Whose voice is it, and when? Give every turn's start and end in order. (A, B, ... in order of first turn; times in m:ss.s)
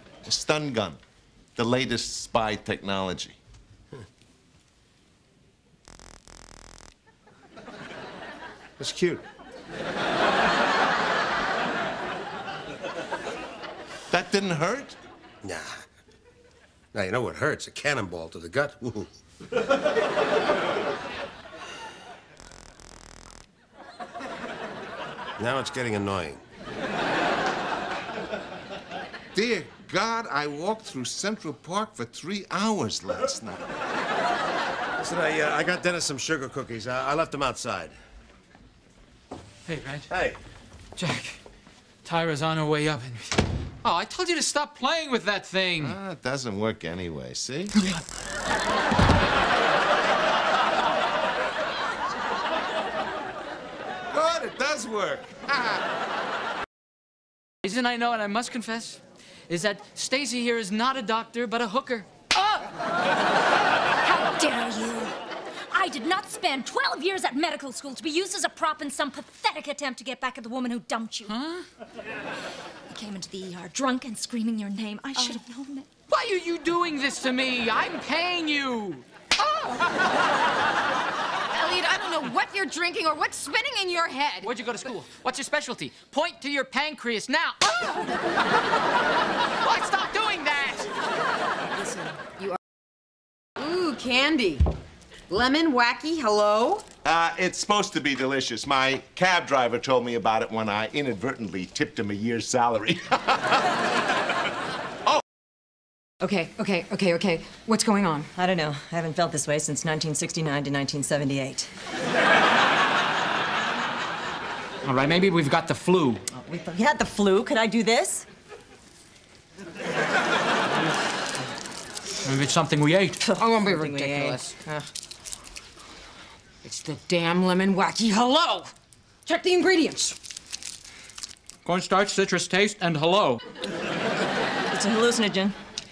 0:00.2-0:01.0 A
0:01.6-0:03.4 A
0:08.8-0:09.1 A
0:08.8-0:09.2 B
0:14.1-0:15.0 A
0:15.4-0:15.8 B
0:16.9-0:19.1 B
0:25.4-0:26.4 B
0:29.3-0:33.7 A
0:35.0-0:38.0 B
0:39.6-0:40.1 C
0:40.1-0:40.4 B
0:41.0-0:41.4 C
0:42.0-0:46.0 C
0:45.8-0:47.8 A
0:47.8-0:48.0 C
0:54.1-0:55.9 A
0:57.6-1:02.6 C
1:04.0-1:05.1 D
1:05.7-1:11.3 D
1:11.2-1:11.6 C
1:12.9-1:15.9 D
1:16.1-1:19.0 C
1:19.4-1:19.9 E
1:21.5-1:24.5 E
1:24.4-1:27.7 C
1:29.6-1:30.9 C
1:31.8-1:32.6 E
1:33.6-1:34.6 E
1:35.3-1:36.8 E
1:37.0-1:43.7 A
1:46.2-1:48.3 E
1:48.3-1:51.7 F
1:54.8-1:56.3 C
1:56.4-1:58.2 F
2:02.2-2:03.2 C
2:03.2-2:04.5 F
2:03.4-2:04.9 E
2:06.6-2:08.7 E
2:09.2-2:10.2 E
2:11.6-2:13.4 C
2:14.7-2:15.6 F